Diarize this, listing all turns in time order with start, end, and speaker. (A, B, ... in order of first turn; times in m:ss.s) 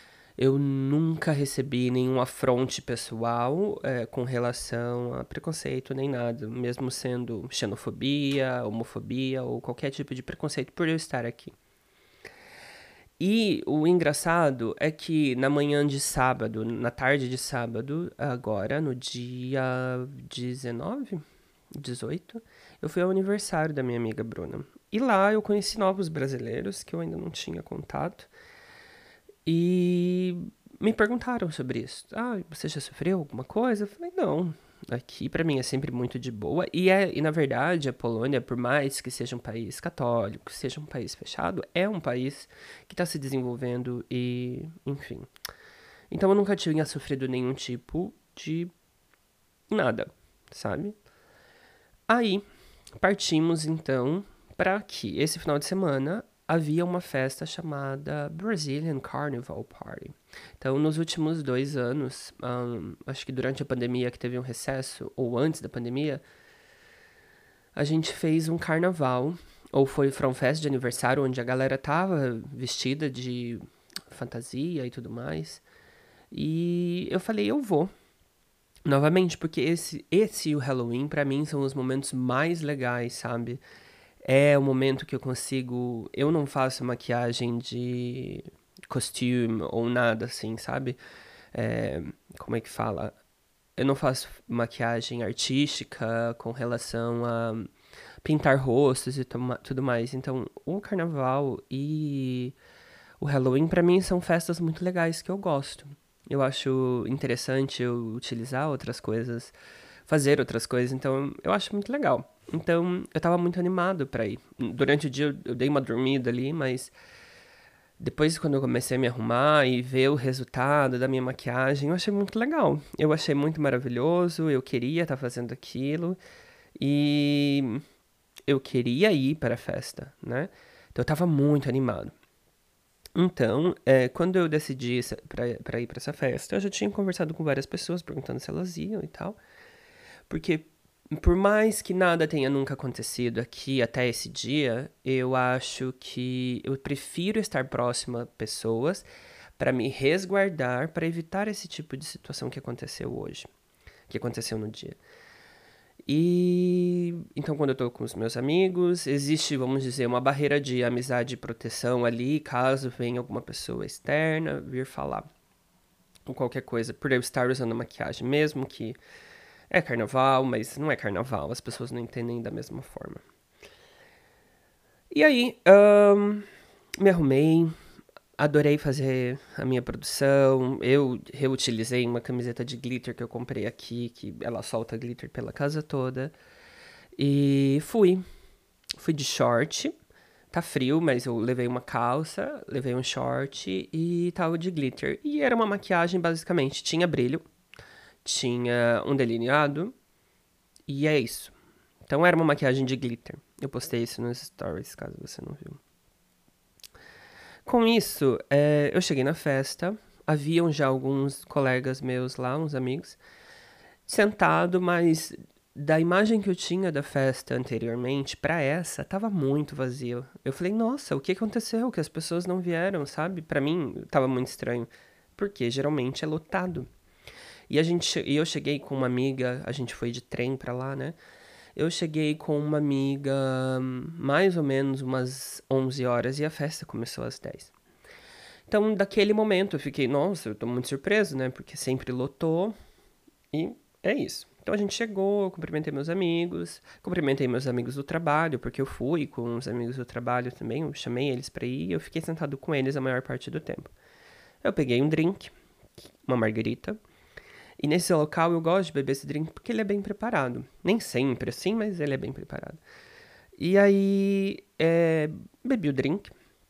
0:00.4-0:11.6 A
0:13.2-0:21.2 A
0:21.8-0:28.3 A
0:29.5-0:45.3 A
0:46.1-0:48.7 A
0:49.7-0:51.0 A
0:52.1-0:52.4 A
0:53.0-1:06.2 A
1:07.8-1:15.6 A
1:16.3-1:17.9 A
1:18.9-1:23.6 A
1:24.2-1:31.0 A
1:31.5-1:33.2 A
1:33.8-1:37.7 A
1:38.2-1:42.6 A
1:43.2-1:49.5 A
1:50.1-1:56.9 A
1:58.0-2:06.2 A
2:06.8-2:07.8 A
2:08.5-2:12.1 A
2:13.2-2:19.4 A
2:20.3-2:29.1 A
2:29.6-2:33.5 A
2:34.1-2:35.0 A
2:36.1-2:45.3 A
2:46.3-2:49.0 A
2:49.7-2:53.2 A
2:55.1-2:56.5 A
2:57.0-2:57.7 A
2:58.4-3:06.3 A
3:07.2-3:08.2 A
3:09.0-3:09.9 A
3:10.5-3:17.5 A
3:18.2-3:20.0 A
3:20.9-3:21.6 A
3:22.1-3:25.8 A
3:27.7-3:33.2 A
3:34.1-3:46.9 A
3:47.7-3:51.2 A
3:51.8-3:57.7 A
3:58.7-4:02.8 A
4:03.5-4:13.9 A
4:14.6-4:15.5 A
4:16.2-4:17.0 A
4:17.8-4:22.8 A
4:23.6-4:26.3 A